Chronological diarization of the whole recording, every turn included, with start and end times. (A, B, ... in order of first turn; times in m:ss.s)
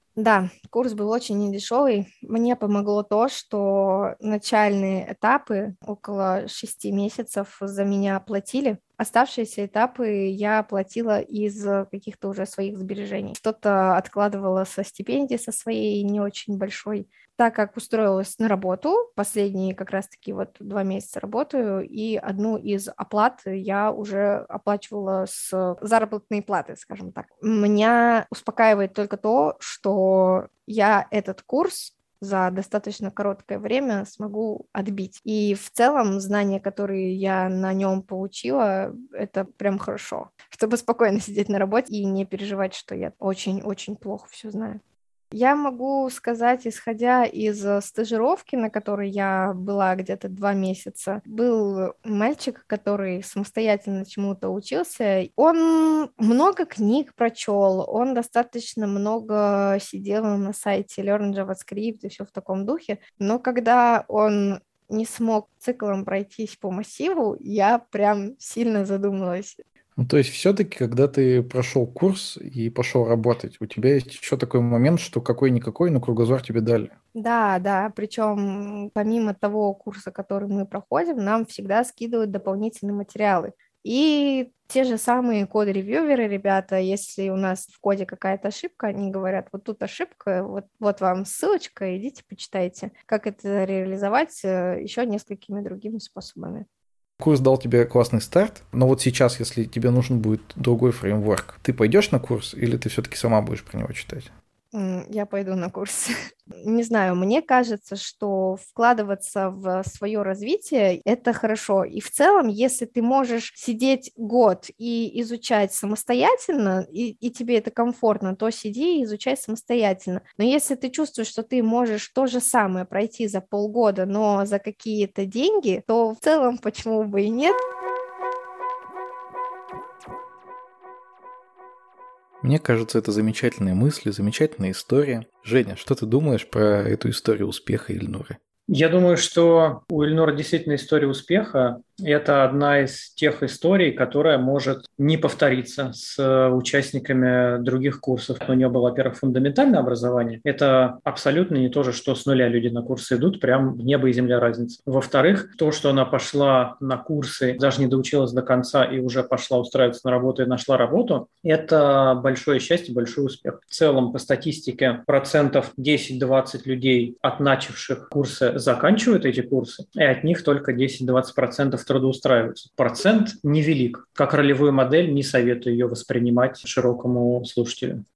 0:00.2-0:44.8 A
0:45.3-1:09.6 A
1:10.0-1:16.9 B
1:17.1-1:36.6 A
1:37.2-1:44.3 B
1:44.7-2:07.6 A
2:12.4-2:18.4 B
2:18.7-2:58.0 C